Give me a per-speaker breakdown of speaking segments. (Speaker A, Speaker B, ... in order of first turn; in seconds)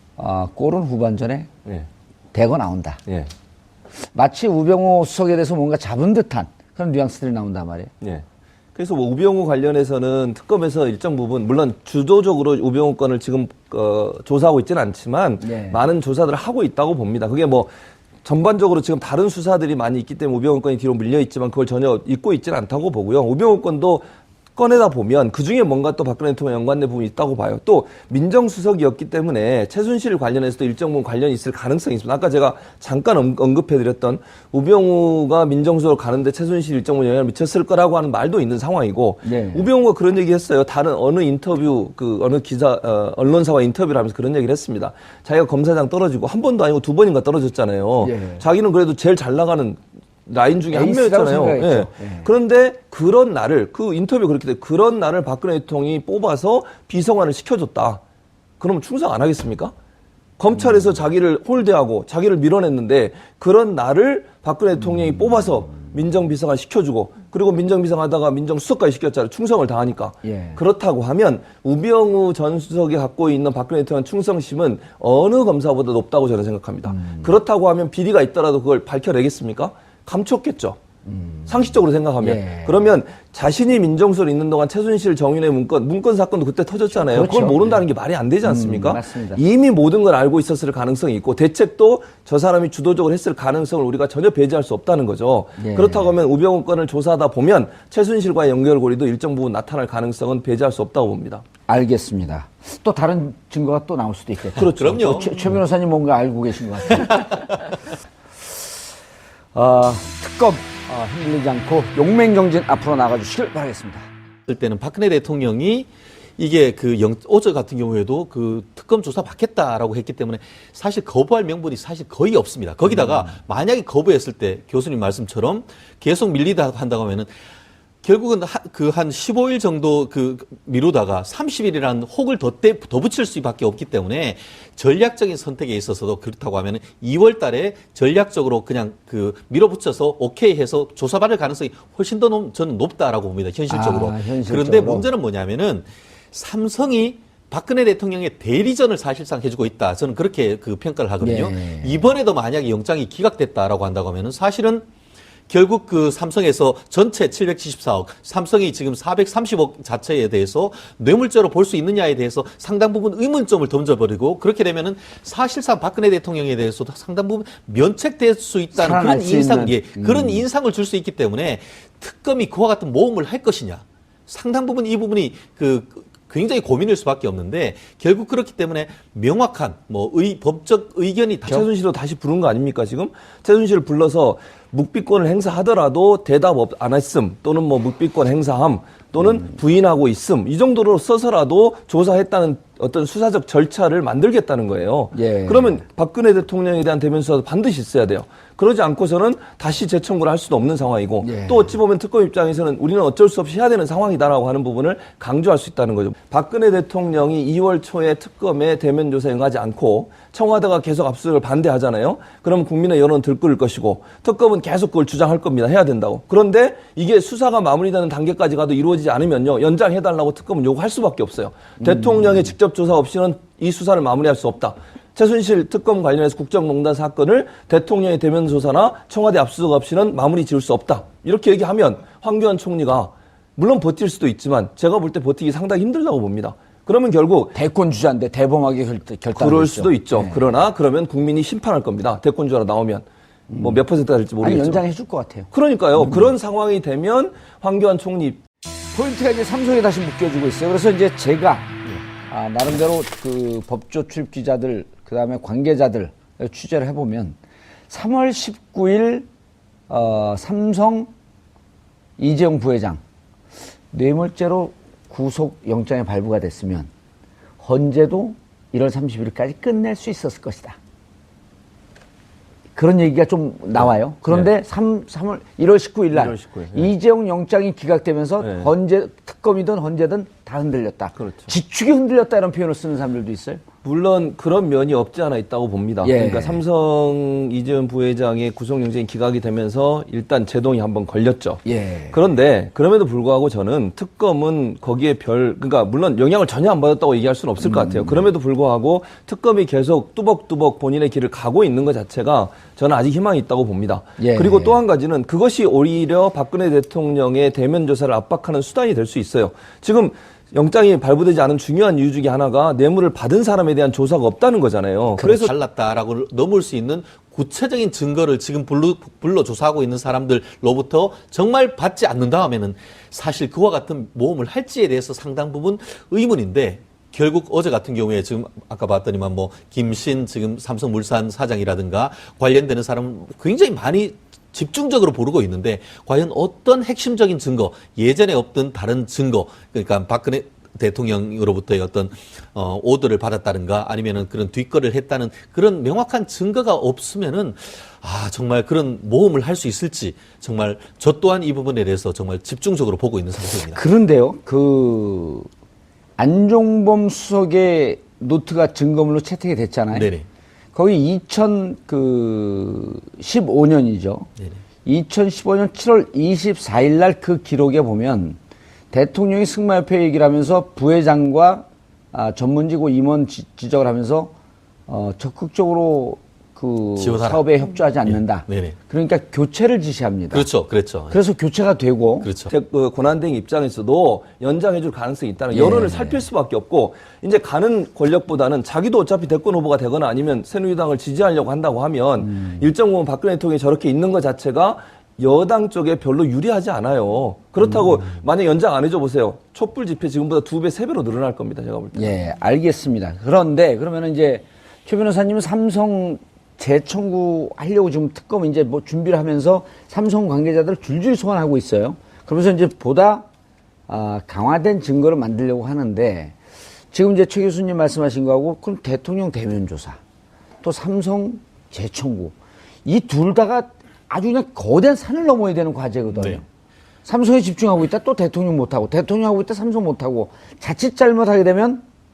Speaker A: 0.2-1.5, 2.3-3.0, 4.1-7.9, 15.4-15.8, 39.2-39.7, 48.0-48.4, 50.7-52.3, 70.2-70.6, 76.9-77.2, 81.1-81.5, 82.2-82.8, 87.0-87.8, 88.4-89.4, 95.6-96.1, 101.7-107.4, 109.5-114.0, 143.7-145.1, 151.2-152.0, 168.7-170.4, 195.1-195.8, 201.2-201.7, 221.8-222.4, 237.5-240.4, 243.5-243.8, 244.4-245.5, 248.9-257.4, 257.9-259.2, 259.9-261.1, 262.2-263.0, 263.9-266.9, 267.6-270.8, 272.8-283.6, 286.0-286.6, 291.6-292.2, 297.6-298.2, 304.2-304.8, 353.7-355.5, 356.2-360.1, 360.7-364.3, 364.8-368.4, 368.9-374.3, 374.9-380.5, 381.1-382.3, 385.5-386.3, 392.2-392.6, 401.9-413.2, 413.9-416.3, 416.9-420.0, 420.6-426.4, 427.1-431.8
Speaker B: 8.0-17.7, 18.2-24.0, 24.6-58.0, 58.6-59.7, 60.4-80.8, 81.5-101.4, 181.4-237.6, 239.3-244.8, 245.5-248.4, 273.8-274.5, 276.1-276.9, 278.4-278.7, 281.2-281.5, 283.8-315.5, 382.5-402.2
Speaker C: 104.5-105.5, 106.9-107.3, 114.5-127.3, 128.0-154.8, 155.5-181.7, 315.2-353.8, 359.9-360.2, 377.0-378.7, 380.3-381.2, 382.2-382.5